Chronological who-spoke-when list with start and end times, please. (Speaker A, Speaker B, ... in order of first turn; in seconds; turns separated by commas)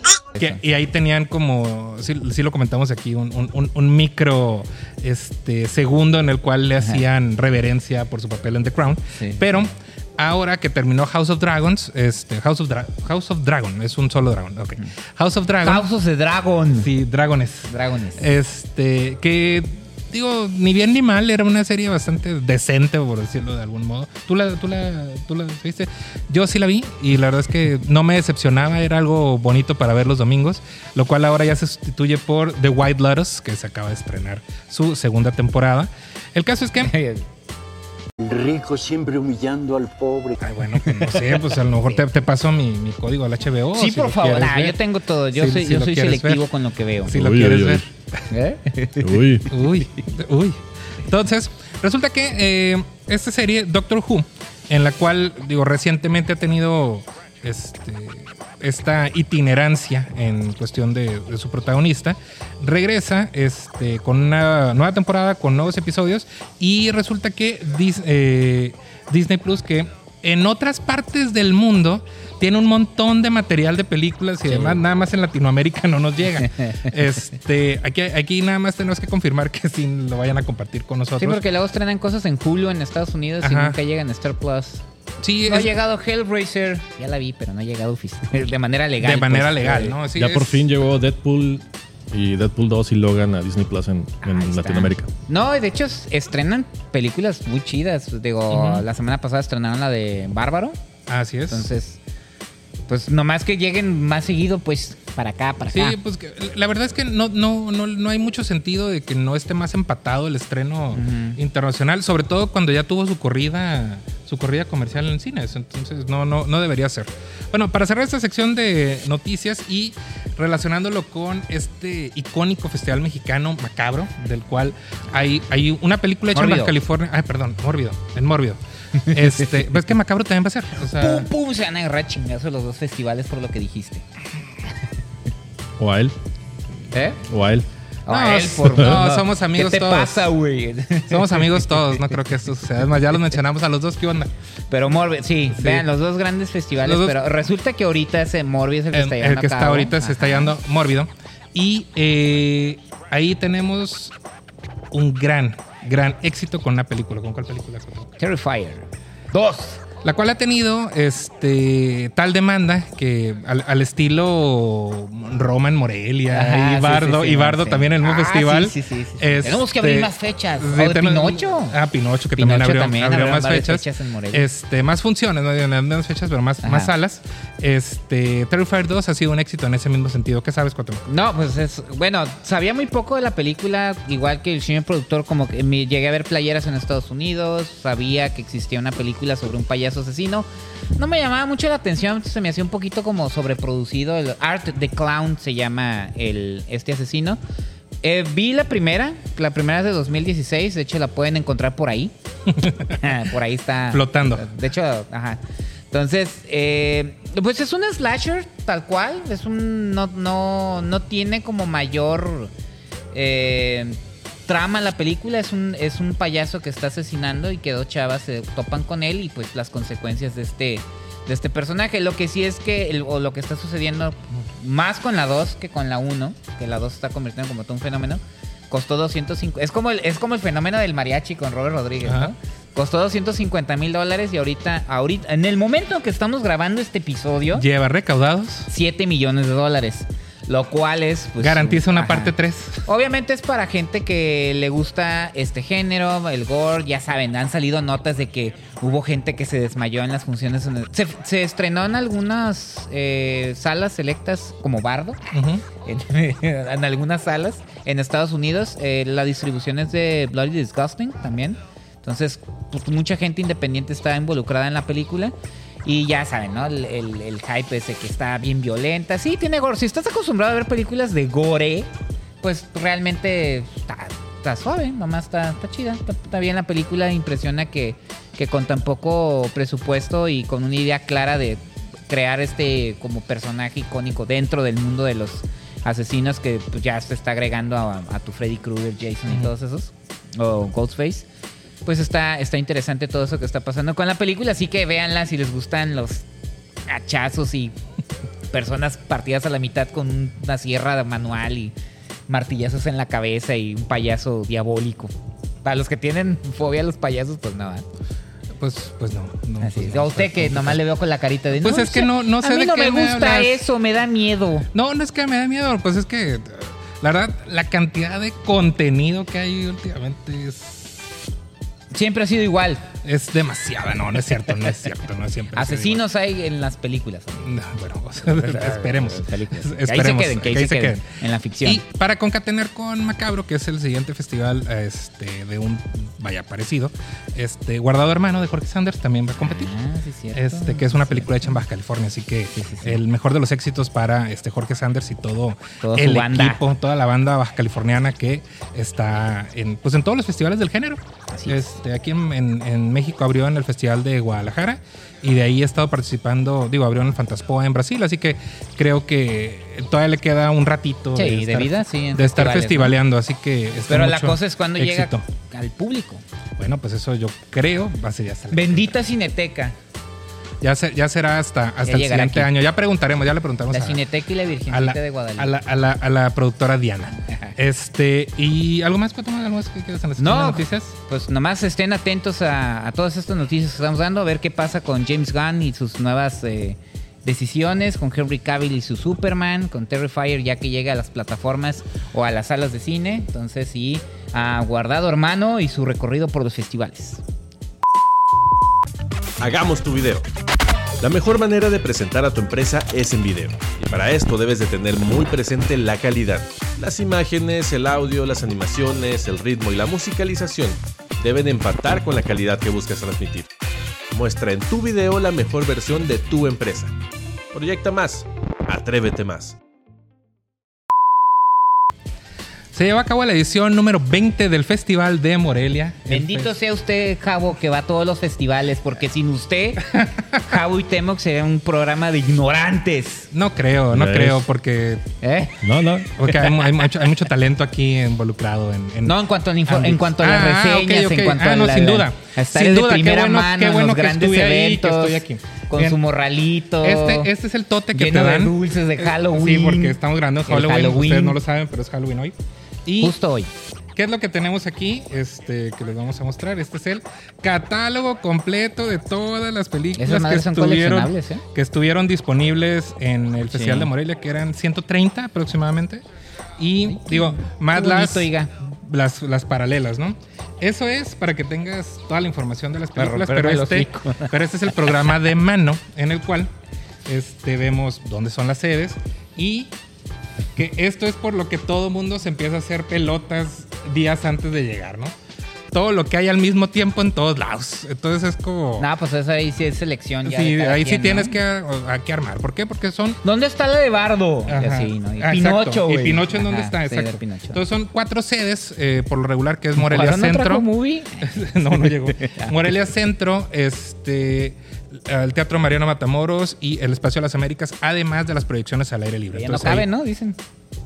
Speaker A: 0.4-15.9, Speaker B: 9.2-9.6, Speaker B: 15.6-16.9, Speaker A: 16.8-36.9, Speaker B: 17.7-18.2, Speaker B: 36.8-37.2, Speaker C: 38.2-40.4, Speaker A: 40.4-44.8, Speaker B: 41.1-41.4, Speaker B: 43.8-47.1, Speaker A: 45.3-46.5, Speaker A: 47.0-47.9, Speaker D: 47.1-47.8, Speaker B: 48.3-49.8, Speaker D: 49.0-49.5, Speaker A: 49.5-81.4, Speaker B: 74.5-74.8, Speaker B: 76.4-76.9, Speaker B: 81.2-84.8, Speaker A: 83.4-83.8, Speaker A: 85.2-85.7, Speaker B: 85.5-90.0, Speaker A: 89.0-90.7, Speaker D: 90.2-95.1, Speaker B: 94.2-100.8, Speaker A: 98.5-98.9, Speaker A: 101.1-101.7, Speaker B: 101.5-102.0, Speaker B: 102.9-106.0, Speaker A: 105.6-131.3, Speaker B: 110.9-111.4, Speaker B: 126.3-126.8, Speaker B: 129.1-129.5, Speaker B: 130.8-134.1, Speaker D: 135.8-136.2, Speaker B: 136.9-137.2, Speaker D: 137.3-137.7, Speaker B: 138.1-141.9, Speaker A: 138.1-140.3, Speaker A: 141.1-144.3, Speaker B: 144.7-150.5, Speaker A: 145.6-145.9, Speaker A: 146.8-147.2, Speaker A: 148.9-154.2, Speaker A: 154.9-158.1, Speaker B: 158.2-159.8, Speaker A: 160.0-181.1, Speaker B: 166.3-171.8, Speaker B: 172.4-174.4, Speaker B: 176.6-176.9, Speaker B: 181.1-197.4, Speaker B: 198.0-202.1, Speaker A: 202.5-203.1, Speaker B: 203.0-205.4, Speaker A: 203.9-204.5, Speaker B: 205.9-212.5, Speaker B: 213.1-237.7, Speaker A: 232.1-232.3, Speaker A: 237.5-238.7, Speaker B: 238.7-242.3, Speaker A: 241.4-242.9, Speaker B: 242.8-255.2, Speaker A: 255.3-255.6, Speaker B: 255.8-265.3, Speaker B: 265.9-291.3, Speaker B: 291.9-296.3, Speaker B: 296.9-297.8, Speaker B: 298.5-301.8, Speaker B: 302.3-305.1, Speaker B: 305.6-307.9, Speaker A: 308.6-310.8, Speaker B: 309.6-314.7, Speaker A: 311.5-313.6, Speaker A: 314.7-321.1, Speaker B: 321.9-322.9, Speaker A: 323.0-326.0, Speaker B: 325.6-327.5, Speaker A: 327.4-331.1, Speaker B: 328.2-331.8, Speaker A: 331.6-339.7, Speaker B: 339.4-341.5, Speaker A: 340.3-365.3, Speaker B: 342.5-343.0, Speaker B: 345.8-346.6, Speaker B: 351.3-351.8, Speaker B: 361.2-363.0, Speaker B: 363.9-366.2, Speaker A: 366.6-369.0, Speaker B: 368.5-369.8, Speaker A: 370.6-374.1, Speaker B: 371.9-372.5, Speaker B: 373.7-375.6, Speaker A: 374.7-381.0, Speaker B: 377.3-377.6, Speaker B: 380.2-397.2, Speaker E: 399.4-400.2, Speaker E: 401.0-413.5, Speaker E: 414.1-416.9, Speaker E: 417.5-419.6, Speaker A: 422.7-426.5, Speaker B: 426.1-433.3, Speaker A: 429.9-430.2, Speaker A: 433.3-435.1, Speaker D: 433.9-434.4, Speaker B: 435.2-435.6, Speaker D: 435.6-436.1, Speaker A: 436.2-446.0, Speaker B: 439.1-447.3, Speaker A: 446.8-452.4, Speaker B: 447.9-451.4, Speaker A: 452.9-453.1, Speaker B: 453.0-453.5, Speaker A: 453.9-466.0, Speaker B: 460.0-461.4, Speaker B: 463.5-463.9, Speaker A: 466.6-476.5, Speaker B: 466.9-468.5, Speaker B: 473.0-474.9, Speaker A: 477.1-479.7, Speaker A: 480.6-485.1, Speaker A: 485.7-488.9, Speaker B: 488.8-491.4, Speaker A: 490.2-493.2, Speaker B: 493.2-497.6, Speaker A: 494.5-500.7, Speaker B: 499.8-502.6, Speaker A: 501.2-509.9, Speaker B: 509.3-510.4